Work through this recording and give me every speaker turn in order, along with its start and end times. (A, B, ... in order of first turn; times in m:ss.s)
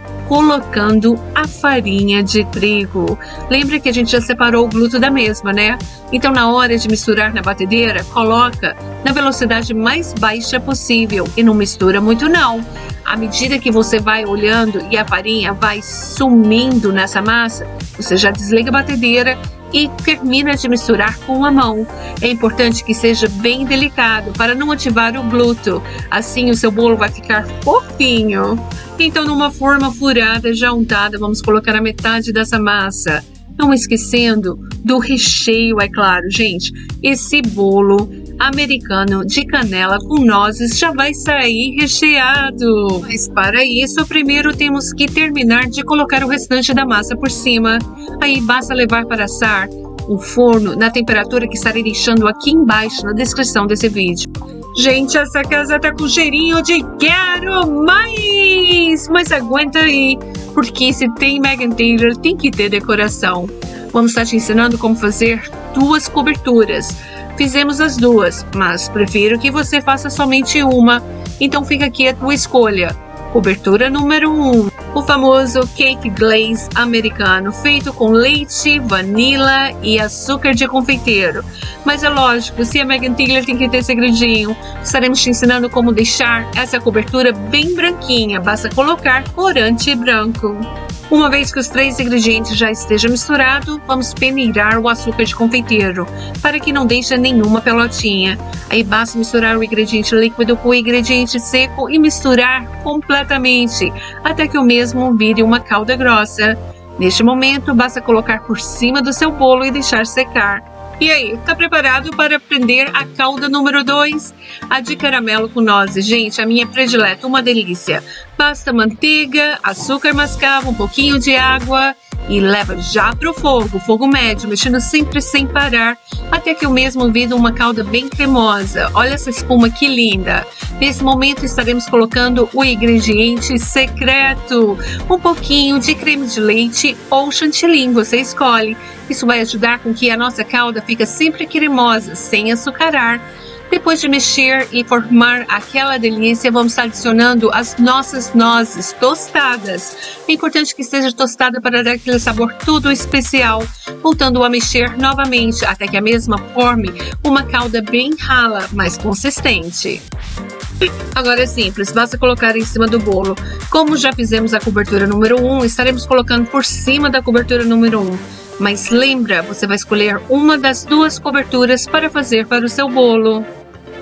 0:00.2-2:40.0 A
2:41.1-2:53.5 A